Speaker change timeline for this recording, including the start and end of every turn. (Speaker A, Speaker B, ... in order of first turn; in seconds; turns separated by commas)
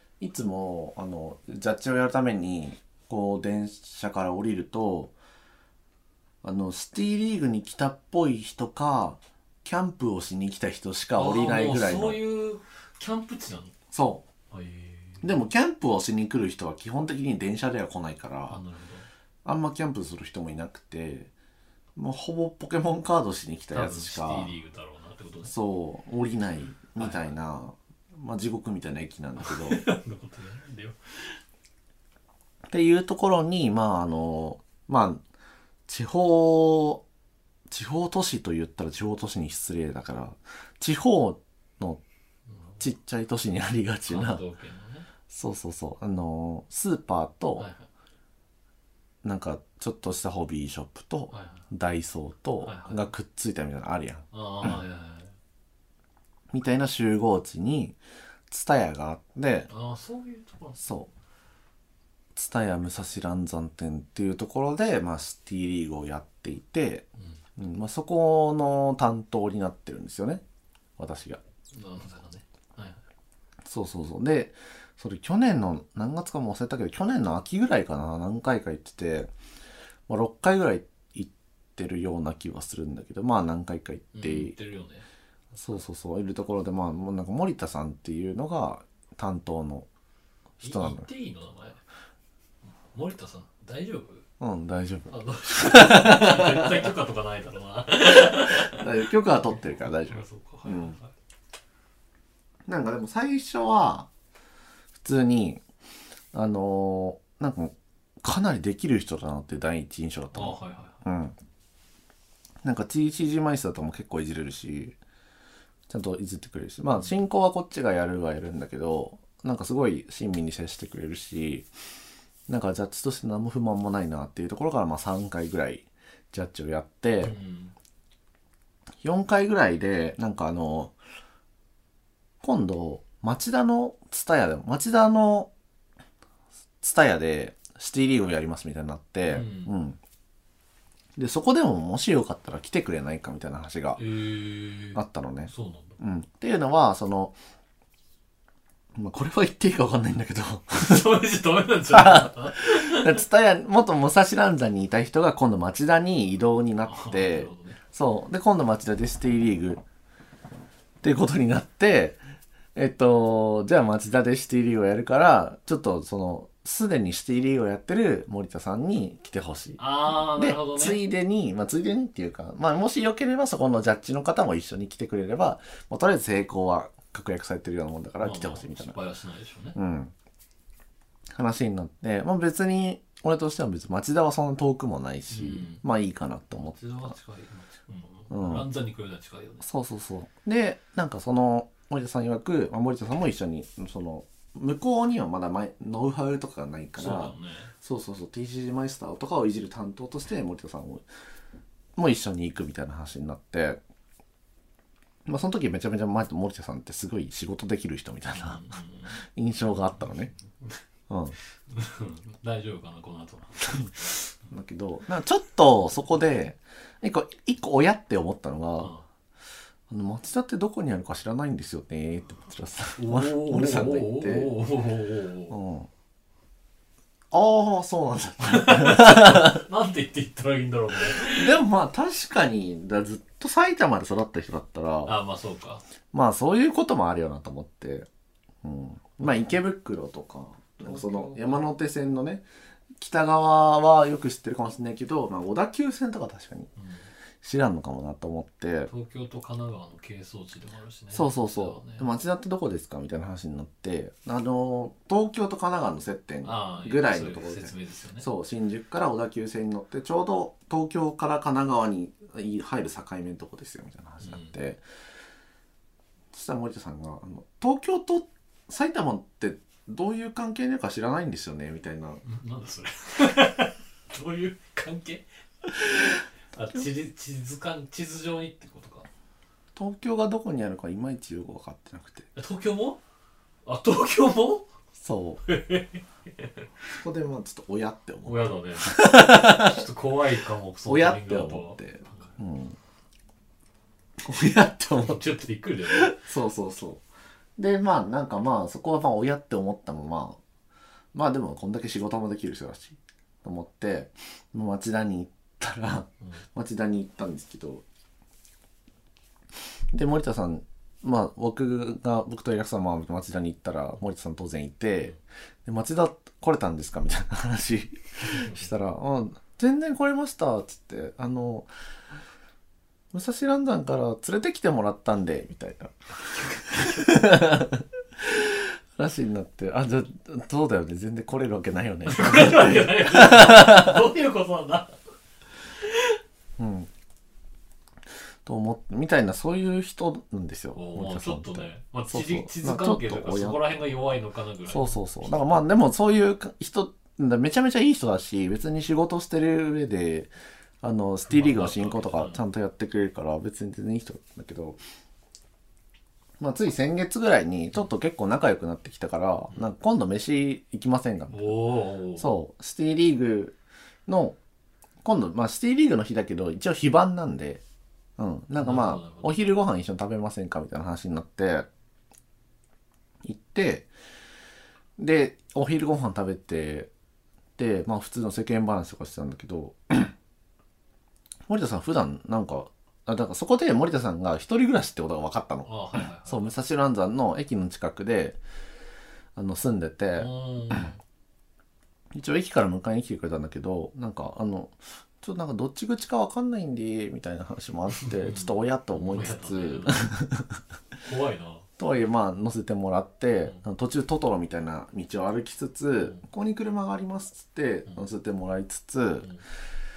Speaker A: 0.2-5.1, Speaker A: 6.4-12.2, Speaker B: 11.2-13.7, Speaker A: 13.9-14.2, Speaker B: 14.5-15.3, Speaker A: 15.2-18.6, Speaker B: 18.5-19.1, Speaker A: 19.4-21.3, Speaker A: 22.0-24.5, Speaker B: 23.7-25.5, Speaker A: 25.4-29.8, Speaker B: 27.0-27.3, Speaker B: 29.4-31.4, Speaker A: 32.7-35.2, Speaker A: 35.9-37.0, Speaker A: 37.7-42.0, Speaker B: 42.5-42.8, Speaker A: 42.8-44.4, Speaker B: 44.1-45.1, Speaker A: 45.3-47.7, Speaker B: 47.6-47.9, Speaker A: 49.2-54.2, Speaker B: 51.3-51.6, Speaker B: 52.6-53.1, Speaker B: 54.3-55.3, Speaker A: 56.5-58.0, Speaker A: 58.5-59.7, Speaker B: 59.7-60.8, Speaker A: 60.8-61.1, Speaker A: 62.4-70.4, Speaker A: 71.0-71.4, Speaker B: 71.7-73.0, Speaker A: 73.7-79.3, Speaker A: 80.1-84.5, Speaker B: 84.1-85.1, Speaker A: 85.5-89.9, Speaker A: 90.6-91.1, Speaker B: 90.6-91.8, Speaker B: 92.9-94.2, Speaker A: 94.4-96.8, Speaker B: 95.1-98.9, Speaker A: 98.0-101.0, Speaker B: 99.5-101.1, Speaker A: 102.7-104.1, Speaker A: 105.0-105.6, Speaker A: 106.3-111.3, Speaker B: 110.3-111.0, Speaker A: 112.6-115.0, Speaker A: 115.9-121.7, Speaker A: 122.5-127.4, Speaker B: 127.2-127.7, Speaker A: 129.0-130.9, Speaker A: 132.4-135.5, Speaker A: 136.8-140.0, Speaker B: 139.3-139.7, Speaker A: 141.2-144.0, Speaker B: 144.0-146.0, Speaker A: 144.9-147.4, Speaker A: 148.9-151.1, Speaker B: 150.8-153.2, Speaker A: 151.9-159.8, Speaker B: 156.8-157.8, Speaker A: 161.0-162.2, Speaker A: 162.8-179.0, Speaker B: 169.8-171.0, Speaker B: 178.2-179.8, Speaker A: 179.8-180.1, Speaker A: 181.3-186.8, Speaker B: 185.3-185.8, Speaker B: 186.6-189.7, Speaker A: 188.3-188.7, Speaker A: 189.6-201.1, Speaker B: 197.0-197.7, Speaker A: 202.0-203.8, Speaker A: 205.3-208.7, Speaker B: 208.3-209.2, Speaker A: 209.3-210.3, Speaker B: 210.0-210.8, Speaker A: 211.1-211.4, Speaker B: 211.7-214.3, Speaker A: 214.5-218.9, Speaker B: 218.8-219.1, Speaker A: 219.9-224.5, Speaker B: 223.0-225.6, Speaker A: 225.5-225.9, Speaker A: 227.3-229.6, Speaker B: 228.4-231.6, Speaker A: 231.1-235.2, Speaker B: 235.1-235.8, Speaker A: 236.1-238.1, Speaker A: 238.6-242.4, Speaker B: 240.8-241.7, Speaker A: 243.0-246.7, Speaker B: 246.8-247.1, Speaker A: 247.4-248.9, Speaker B: 248.9-252.1, Speaker A: 251.1-264.8, Speaker B: 256.4-258.3, Speaker B: 264.2-264.6, Speaker A: 266.3-272.2, Speaker B: 272.2-275.3, Speaker B: 276.5-279.1, Speaker A: 279.8-282.3, Speaker B: 282.4-283.0, Speaker B: 283.7-284.7, Speaker A: 285.0-285.4, Speaker B: 285.5-286.5, Speaker A: 286.9-289.8, Speaker B: 288.2-292.3, Speaker A: 290.9-292.8, Speaker A: 294.2-295.2, Speaker B: 295.0-296.2, Speaker A: 295.9-297.0, Speaker A: 297.6-300.4, Speaker A: 301.1-307.8, Speaker A: 309.9-321.7, Speaker B: 318.2-318.7, Speaker A: 323.1-325.9, Speaker B: 326.3-327.1, Speaker A: 326.7-334.0, Speaker B: 332.1-335.0, Speaker A: 336.6-336.9, Speaker A: 338.5-343.8, Speaker B: 340.8-345.4, Speaker A: 344.7-354.8, Speaker B: 351.3-352.4, Speaker A: 356.4-361.6, Speaker B: 361.3-362.3, Speaker A: 362.2-363.6, Speaker A: 364.1-364.4, Speaker A: 365.0-367.6, Speaker A: 368.2-371.7, Speaker B: 368.6-369.4, Speaker A: 373.2-373.9, Speaker A: 375.0-376.9, Speaker A: 377.6-380.1, Speaker A: 381.5-388.4, Speaker B: 385.7-386.5, Speaker A: 389.4-390.8, Speaker B: 390.2-391.0, Speaker A: 392.1-400.5, Speaker B: 398.0-400.1, Speaker B: 401.0-401.7, Speaker A: 401.8-409.3